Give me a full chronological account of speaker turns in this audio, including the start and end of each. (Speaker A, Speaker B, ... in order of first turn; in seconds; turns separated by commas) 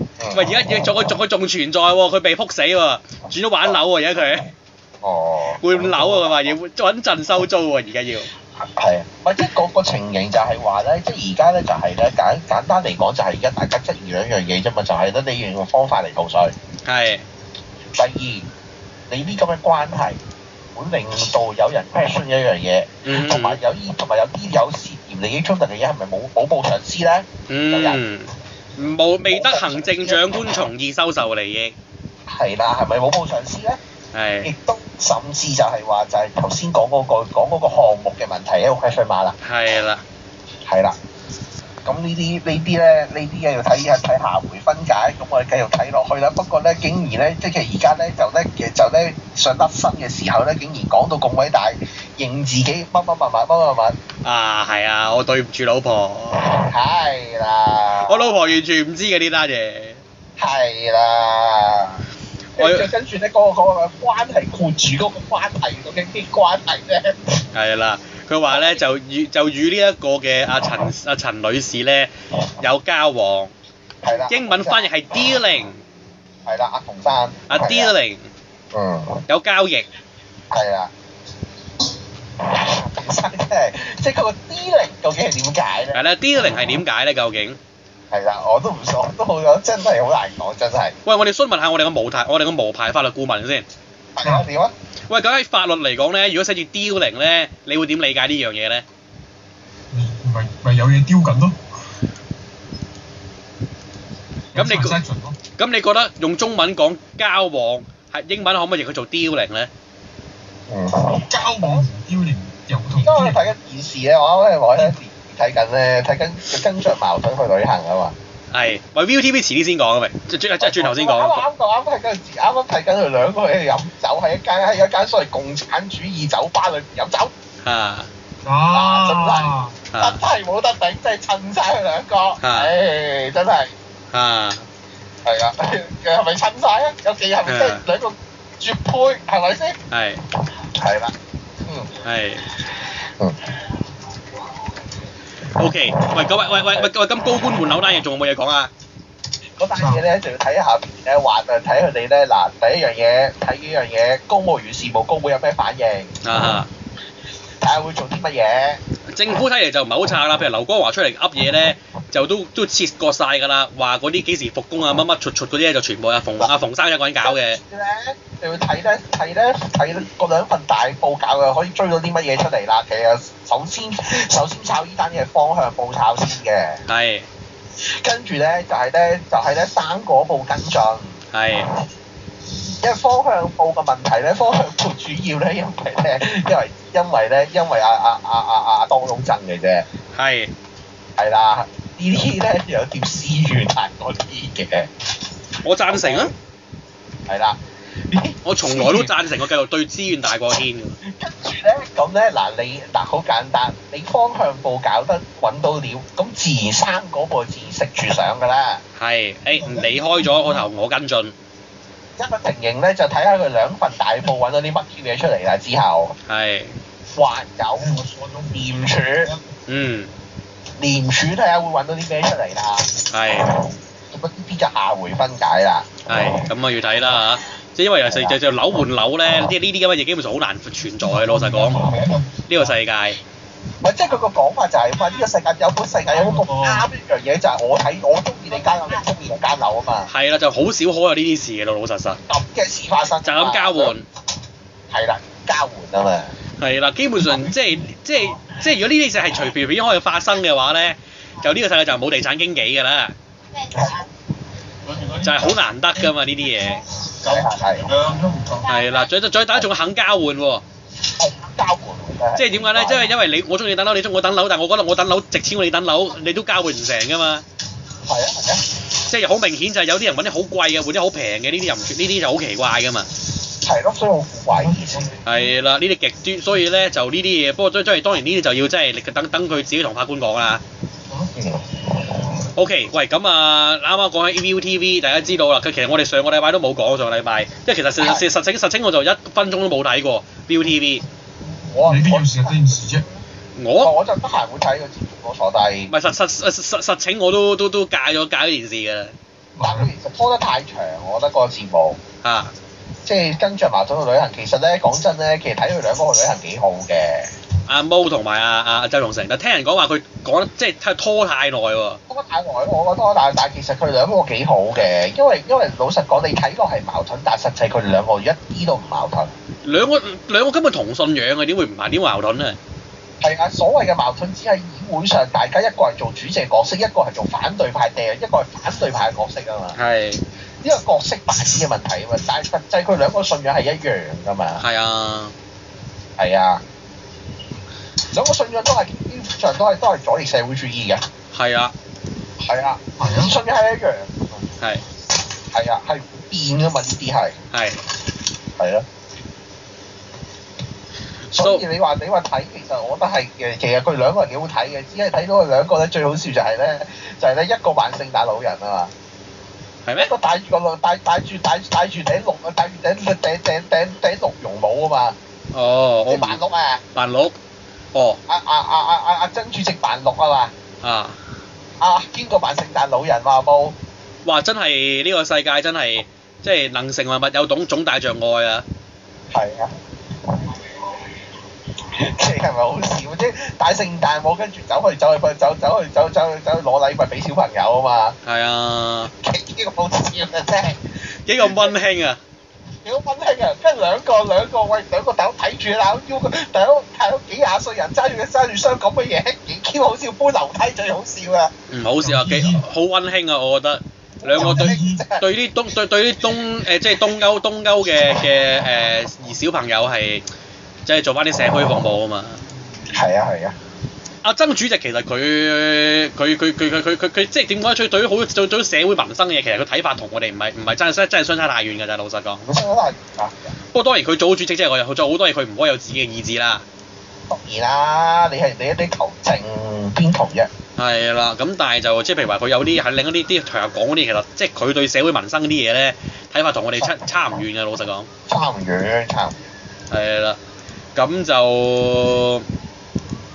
Speaker A: 0.2-0.6, Speaker B: 0.3-4.5, Speaker A: 5.0-6.5, Speaker B: 5.6-8.3, Speaker A: 8.6-16.5, Speaker B: 16.8-17.2, Speaker A: 17.9-18.5, Speaker A: 19.1-20.2, Speaker A: 20.7-28.0, Speaker B: 23.0-23.6, Speaker B: 27.5-31.8, Speaker A: 29.3-30.2, Speaker A: 32.3-33.8, Speaker B: 34.1-34.5, Speaker A: 34.4-39.4, Speaker B: 39.4-40.0, Speaker A: 40.6-41.0, Speaker A: 41.8-54.0, Speaker B: 54.2-56.6, Speaker A: 56.4-58.4, Speaker B: 58.0-60.0, Speaker A: 60.4-62.0, Speaker B: 62.5-62.9, Speaker A: 62.5-67.2, Speaker B: 67.5-73.5, Speaker A: 68.5-68.8, Speaker A: 74.0-74.9, Speaker B: 74.3-75.8, Speaker A: 76.5-77.9, Speaker B: 77.5-78.3, Speaker A: 78.7-79.2, Speaker B: 79.3-79.8, Speaker A: 80.5-80.9, Speaker A: 82.4-86.0, Speaker B: 85.9-87.6, Speaker A: 88.1-91.0, Speaker B: 91.0-93.7, Speaker A: 94.1-94.7, Speaker B: 95.1-98.8, Speaker C: 99.9-101.6, Speaker C: 104.5-105.4, Speaker B: 104.5-105.0, Speaker B: 105.6-109.7, Speaker A: 110.7-111.8, Speaker C: 111.2-113.5, Speaker A: 113.0-118.2, Speaker B: 118.5-121.4, Speaker A: 120.6-127.3, Speaker B: 127.6-128.1, Speaker C: 128.4-129.8, Speaker A: 128.7-133.7, Speaker B: 129.9-130.2, Speaker B: 132.4-132.7, Speaker B: 134.1-134.7, Speaker A: 135.2-139.8, Speaker B: 137.4-137.8, Speaker B: 139.9-140.2, Speaker A: 140.7-141.9, Speaker B: 142.0-142.5, Speaker A: 142.8-143.6, Speaker B: 145.4-148.7, Speaker A: 149.6-156.2, Speaker C: 149.8-150.0, Speaker B: 156.2-156.7, Speaker A: 157.6-158.8, Speaker B: 159.1-167.6, Speaker A: 167.2-176.8, Speaker B: 176.9-177.3, Speaker A: 177.8-181.2, Speaker B: 181.3-181.7, Speaker A: 182.8-189.8, Speaker B: 190.1-190.5, Speaker A: 191.2-194.9, Speaker B: 195.6-196.3, Speaker A: 195.9-196.3, Speaker A: 197.3-199.1, Speaker B: 198.4-201.0, Speaker A: 201.0-208.8, Speaker B: 208.9-211.3, Speaker C: 209.5-210.6, Speaker A: 212.2-216.2, Speaker B: 216.3-216.8, Speaker A: 217.1-219.3, Speaker C: 217.8-219.5, Speaker B: 219.7-220.1, Speaker A: 220.8-223.0, Speaker B: 223.1-223.5, Speaker A: 223.5-226.5, Speaker B: 226.1-231.9, Speaker A: 228.1-228.4, Speaker C: 231.0-232.7, Speaker B: 232.5-233.2, Speaker A: 233.8-240.1, Speaker C: 236.1-236.8, Speaker B: 240.1-242.2, Speaker A: 242.3-243.9, Speaker B: 243.2-244.1, Speaker A: 244.9-246.3, Speaker B: 246.6-253.2, Speaker C: 247.3-247.8, Speaker A: 253.7-254.1, Speaker C: 254.8-255.6, Speaker B: 255.2-256.8, Speaker C: 257.1-258.6, Speaker A: 257.2-257.9, Speaker B: 258.6-260.6, Speaker A: 261.1-263.1, Speaker B: 262.4-267.4, Speaker A: 268.1-268.6, Speaker B: 269.0-273.1, Speaker A: 273.6-275.1, Speaker C: 274.6-275.4, Speaker B: 275.2-280.6, Speaker C: 281.1-281.3, Speaker A: 281.4-282.4, Speaker B: 282.5-291.0, Speaker A: 288.0-288.3, Speaker A: 291.6-293.2, Speaker C: 291.8-293.1, Speaker B: 293.6-293.9, Speaker A: 293.8-295.9, Speaker B: 295.9-299.1, Speaker C: 299.6-299.9, Speaker A: 299.6-302.0, Speaker B: 302.2-302.5, Speaker A: 303.0-307.3, Speaker B: 307.6-312.0, Speaker A: 312.1-319.3, Speaker B: 319.6-322.6, Speaker A: 323.2-329.8, Speaker B: 329.7-330.2, Speaker A: 330.6-334.6, Speaker B: 334.6-335.3, Speaker A: 336.2-336.6, Speaker A: 338.1-341.0, Speaker B: 341.3-341.7, Speaker A: 342.4-344.4, Speaker C: 343.0-343.3, Speaker A: 345.5-347.4, Speaker B: 347.5-347.8, Speaker A: 348.6-348.9, Speaker B: 351.3-351.6, Speaker A: 351.3-358.9, Speaker B: 359.8-360.1, Speaker A: 359.9-365.2, Speaker B: 365.5-366.4, Speaker A: 366.1-366.8, Speaker B: 366.9-367.4, Speaker B: 367.9-368.2, Speaker A: 368.3-370.5, Speaker B: 370.8-371.2, Speaker A: 371.8-373.8, Speaker B: 374.2-378.6, Speaker A: 379.3-379.7, Speaker A: 380.3-380.6, Speaker A: 381.9-388.2, Speaker B: 388.2-389.1, Speaker A: 389.1-390.8, Speaker B: 391.2-392.2, Speaker A: 391.4-391.7, Speaker A: 392.8-401.5, Speaker B: 401.7-410.2, Speaker C: 402.0-402.6, Speaker A: 404.2-405.2, Speaker C: 404.4-405.1, Speaker B: 410.9-412.4, Speaker A: 412.9-413.6, Speaker B: 414.2-422.4, Speaker A: 422.4-423.5, Speaker B: 423.7-426.6, Speaker A: 427.3-430.5, Speaker B: 430.8-438.1, Speaker A: 438.3-439.5, Speaker B: 439.9-440.4, Speaker B: 440.9-442.4